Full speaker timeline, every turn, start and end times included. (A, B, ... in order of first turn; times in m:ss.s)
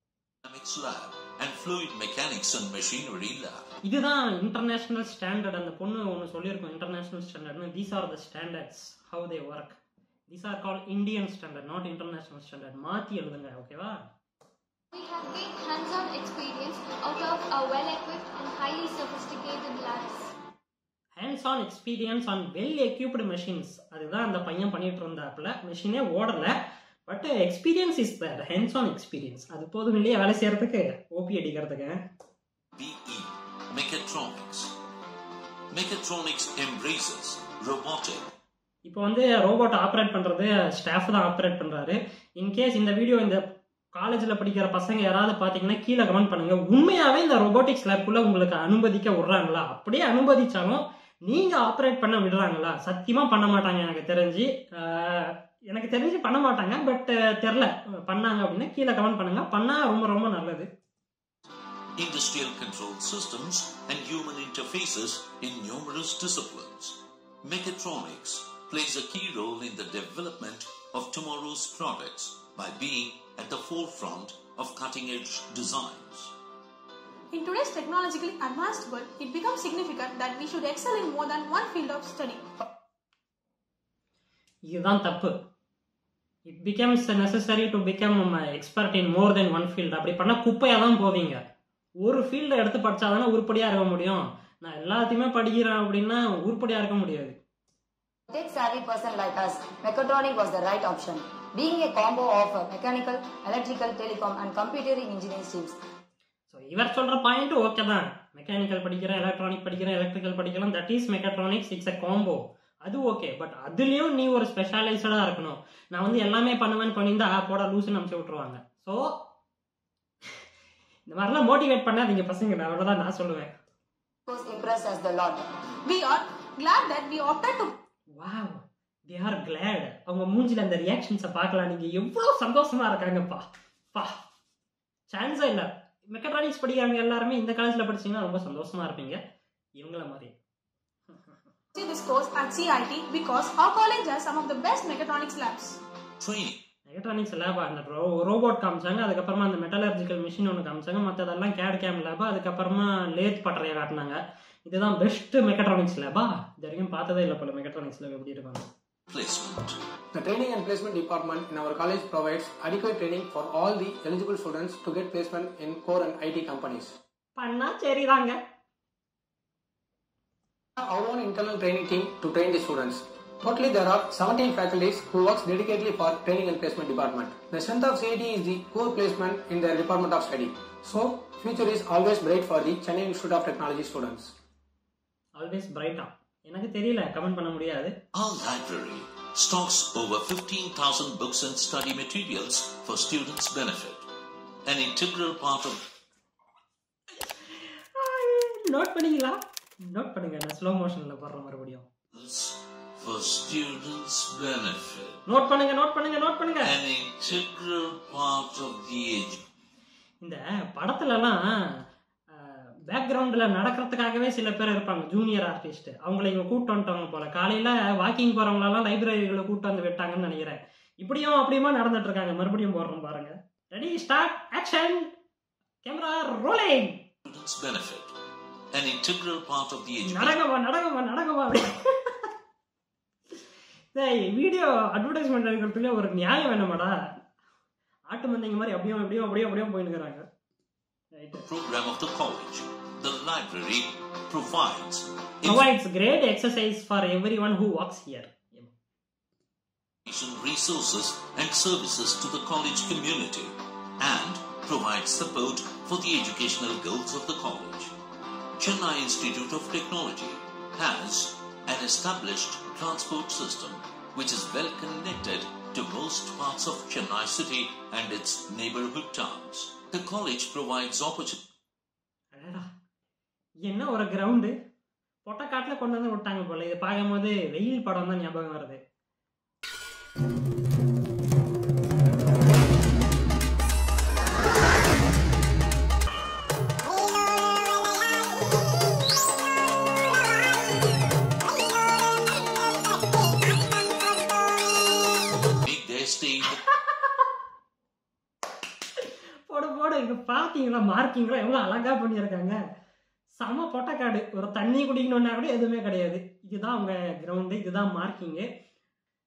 0:00.4-0:03.7 A
0:03.8-0:14.0 B
0:14.9-0:20.3 C
0:21.2-0:26.5 B
0:27.1-0:32.0 B
0:32.8-0:34.7 A
0:35.7-0:38.3 A
0:38.9-0:43.4 B
0:44.0-1:00.7 B
1:02.0-1:16.3 A
1:17.3-1:22.4 D
1:24.7-1:25.3 B
1:26.5-1:31.4 B
1:32.0-1:37.4 B
1:38.3-1:45.8 E
1:46.5-1:59.2 B
2:01.1-2:03.5 B
2:04.3-2:05.5 E
2:05.9-2:07.7 D
2:08.2-2:14.2 B
2:15.1-2:19.2 B
2:19.8-2:20.3 B
2:21.7-2:25.8 D
2:26.2-2:26.6 A
2:26.9-2:38.7 B
2:39.1-2:39.8 A
2:40.1-2:46.9 F
2:47.4-2:48.4 B
2:50.8-3:04.3 F
3:05.4-3:07.9 B
3:08.2-3:14.1 A
3:14.7-3:15.8 A
3:17.3-3:19.4 B
3:19.9-3:21.9 B
3:22.1-3:25.2 A
3:25.3-3:26.7 B
3:26.6-3:29.4 A
3:30.2-3:31.4 B
3:32.4-3:45.1 B
3:45.8-3:47.0 B
3:47.2-3:48.1 A
3:48.7-3:50.4 A
3:50.1-3:52.1 B
3:54.0-3:56.9 B
3:58.1-4:00.2 B
4:01.2-4:01.4 B
4:01.5-4:05.6 A
4:05.5-4:08.7 B
4:10.1-4:17.9 A
4:18.6-4:31.4 A
4:32.3-4:32.7 B
4:33.6-4:34.5 B
4:35.3-4:38.8 B
4:55.6-4:56.6 A
4:59.5-5:02.6 B
5:03.4-5:08.5 B